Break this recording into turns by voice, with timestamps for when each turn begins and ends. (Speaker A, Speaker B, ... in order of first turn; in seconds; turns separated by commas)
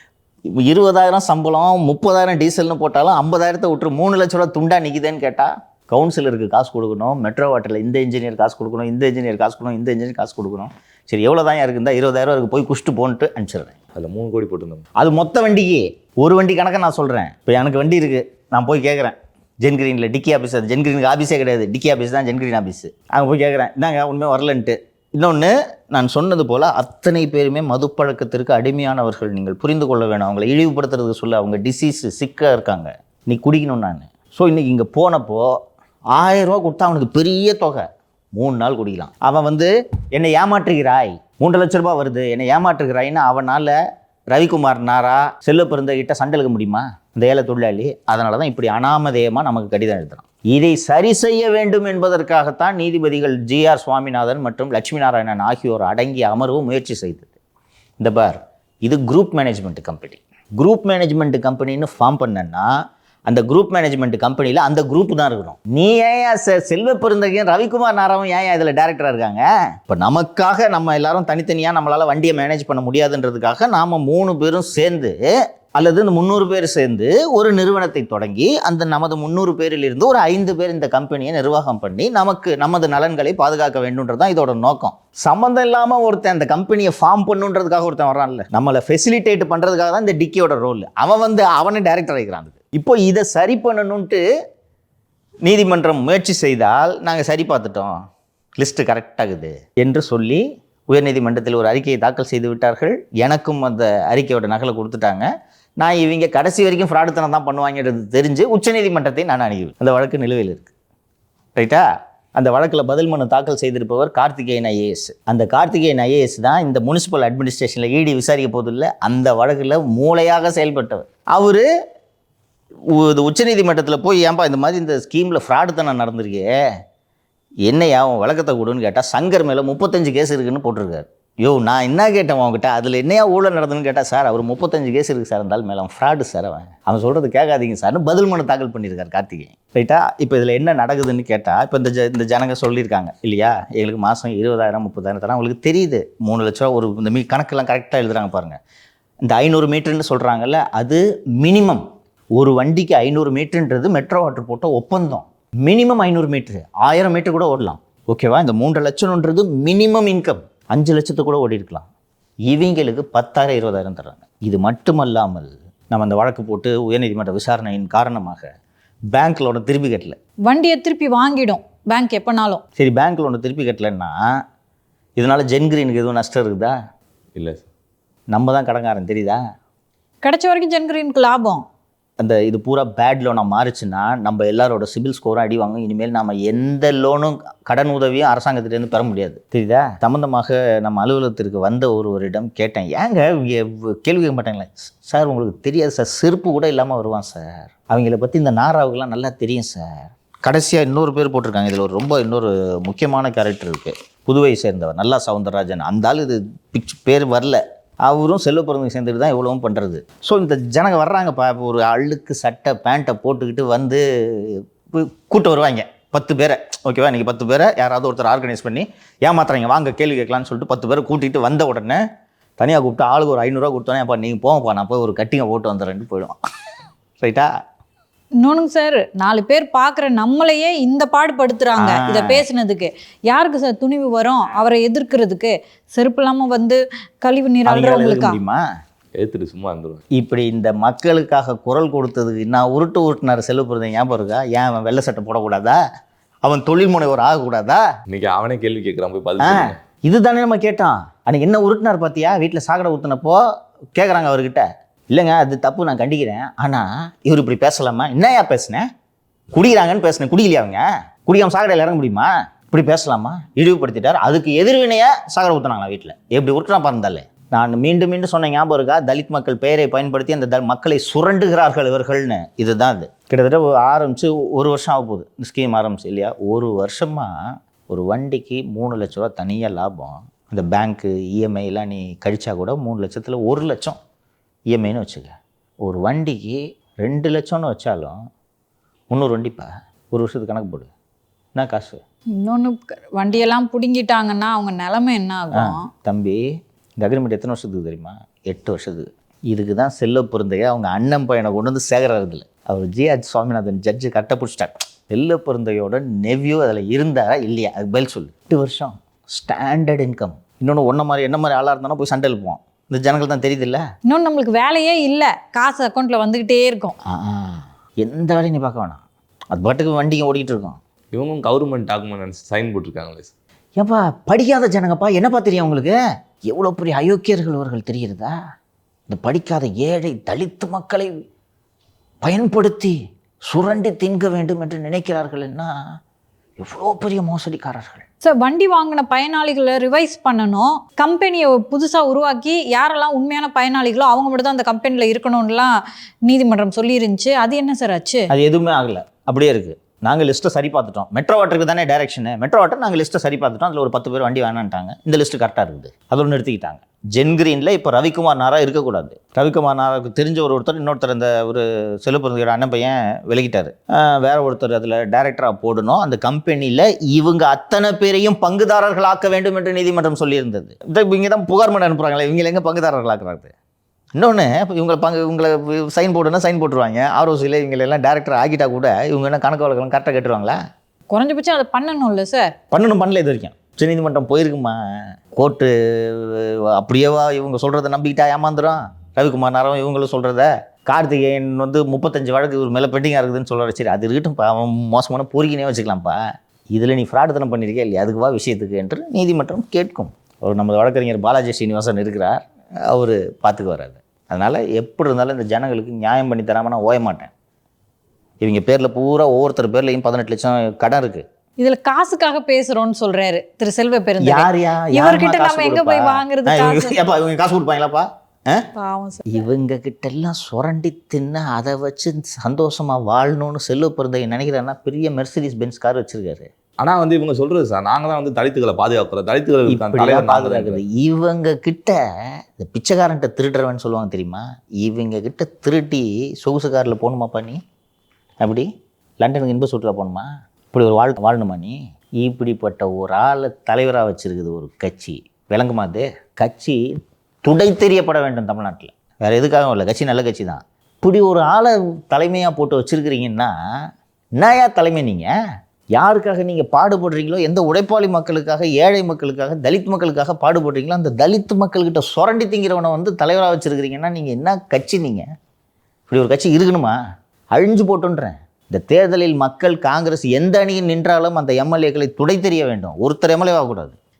Speaker A: 0.6-13.7, Speaker B: 13.9-14.8, Speaker A: 15.0-35.5, Speaker A: 36.1-37.8, Speaker A: 38.4-43.7, Speaker A: 44.3-57.3, Speaker A: 58.0-62.7, Speaker A: 63.3-75.2, Speaker A: 75.8-94.2, Speaker A: 95.4-97.9, Speaker A: 98.6-105.3, Speaker A: 105.8-110.7, Speaker A: 111.5-121.6, Speaker A: 122.9-126.5, Speaker A: 127.7-148.6, Speaker A: 149.2-151.8, Speaker A: 152.3-161.9, Speaker A: 162.5-168.5, Speaker A: 169.1-170.2, Speaker C: 170.4-172.6, Speaker A: 172.8-174.1, Speaker A: 175.2-176.7, Speaker B: 177.3-177.7, Speaker A: 178.3-179.4, Speaker C: 180.2-181.6, Speaker A: 182.2-222.0, Speaker A: 222.6-226.3, Speaker A: 227.2-227.5, Speaker C: 228.4-238.4, Speaker A: 231.8-232.4, Speaker A: 237.7-238.6, Speaker B: 239.2-240.0, Speaker A: 240.1-245.8, Speaker A: 246.4-247.8, Speaker B: 248.1-249.8, Speaker A: 249.4-253.4, Speaker A: 253.9-258.8, Speaker A: 259.5-277.3, Speaker A: 277.9-284.0, Speaker A: 284.7-285.3, Speaker A: 285.8-288.2, Speaker A: 289.1-290.9, Speaker A: 291.5-292.0, Speaker C: 292.4-295.9, Speaker A: 295.5-296.4, Speaker A: 297.0-313.8, Speaker C: 314.1-316.9, Speaker A: 317.1-320.8, Speaker B: 321.1-323.3, Speaker A: 323.8-325.9, Speaker A: 326.5-328.3, Speaker A: 329.1-331.1, Speaker A: 332.2-333.0, Speaker A: 333.5-335.7, Speaker A: 336.6-338.0, Speaker C: 338.2-345.7, Speaker C: 346.2-348.3, Speaker A: 348.3-373.5, Speaker A: 374.1-380.6, Speaker C: 381.1-382.5, Speaker A: 382.7-384.8, Speaker A: 385.4-396.2, Speaker A: 396.7-407.3, Speaker A: 408.4-411.2, Speaker C: 411.6-417.0, Speaker A: 414.2-418.6, Speaker C: 418.8-419.4, Speaker A: 419.3-426.5, Speaker B: 426.8-430.8, Speaker A: 429.7-432.0, Speaker A: 432.6-437.6, Speaker A: 438.4-438.7, Speaker A: 439.2-446.8, Speaker A: 447.4-453.5, Speaker A: 454.4-455.3, Speaker A: 455.9-465.2, Speaker A: 466.1-466.9, Speaker A: 467.5-473.9